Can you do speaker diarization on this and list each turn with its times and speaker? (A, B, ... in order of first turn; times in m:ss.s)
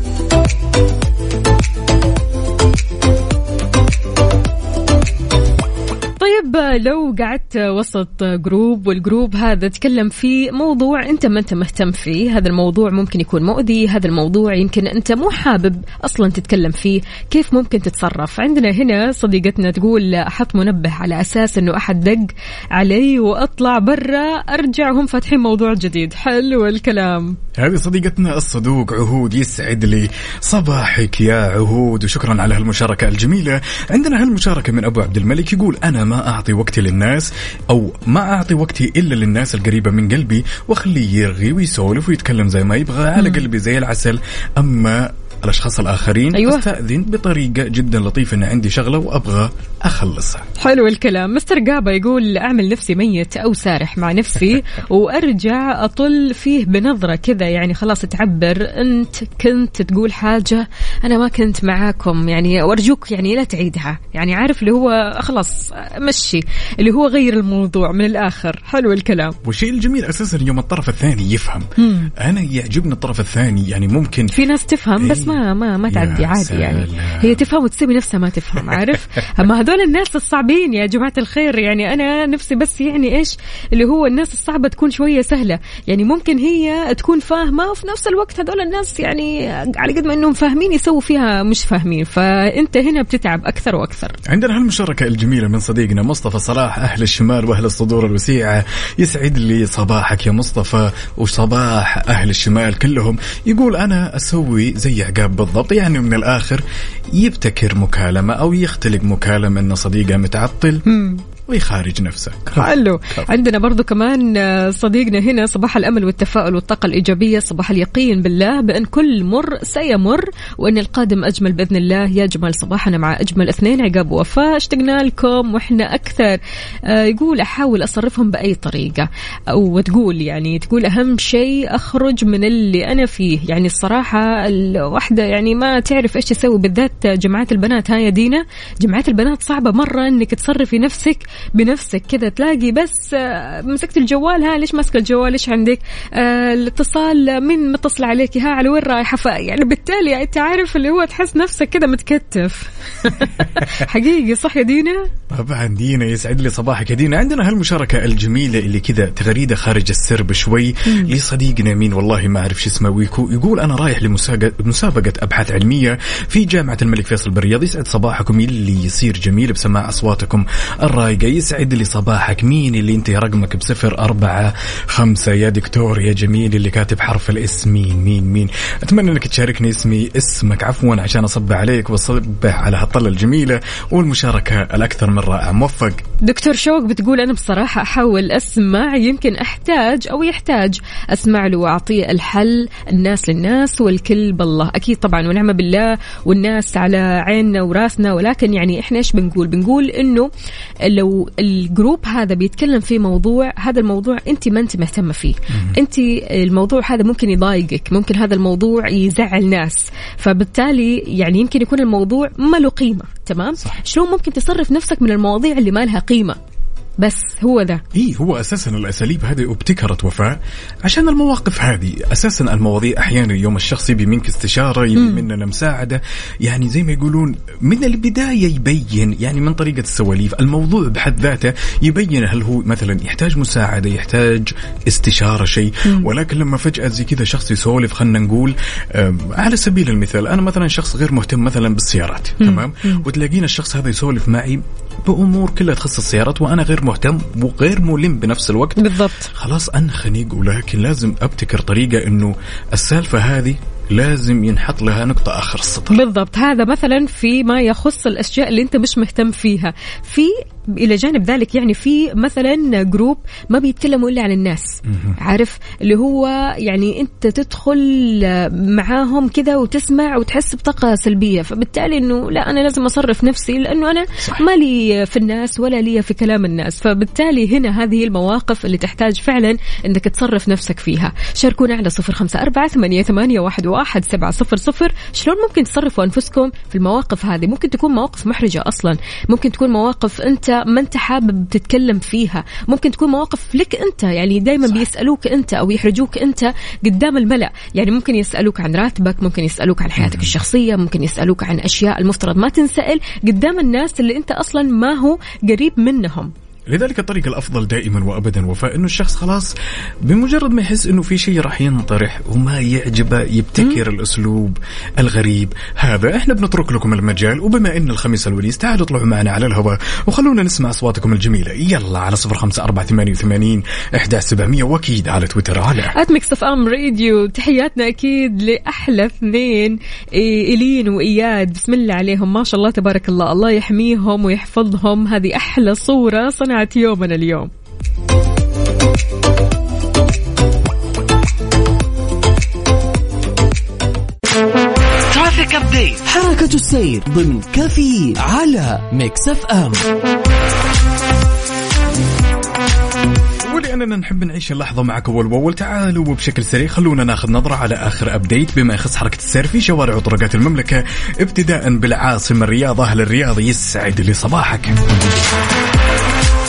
0:06.2-0:27.4 A
0:27.5-0:50.4 B
0:46.3-0:46.6 A
0:50.6-1:09.4 A
1:09.4-1:14.3 B
1:11.8-1:12.1 A
1:14.3-1:34.2 A
1:15.0-1:17.4 B
1:34.2-1:50.8 B
1:50.9-1:51.2 A
1:51.4-1:53.3 B
1:52.5-2:35.1 A
2:35.3-3:06.0 B
3:06.2-3:20.3 A
3:20.8-3:36.4 A
3:25.5-3:25.8 B
3:37.0-3:37.8 A
3:37.9-4:16.0 B
3:45.0-3:45.2 A
4:02.4-4:03.0 A
4:08.8-4:09.3 A
4:15.9-5:06.3 A
4:24.8-4:25.2 B
5:00.0-5:00.3 B
5:06.7-5:09.5 B
5:10.0-5:25.9 B
5:26.0-5:37.5 A
5:45.1-5:49.8 C
5:53.4-6:05.1 B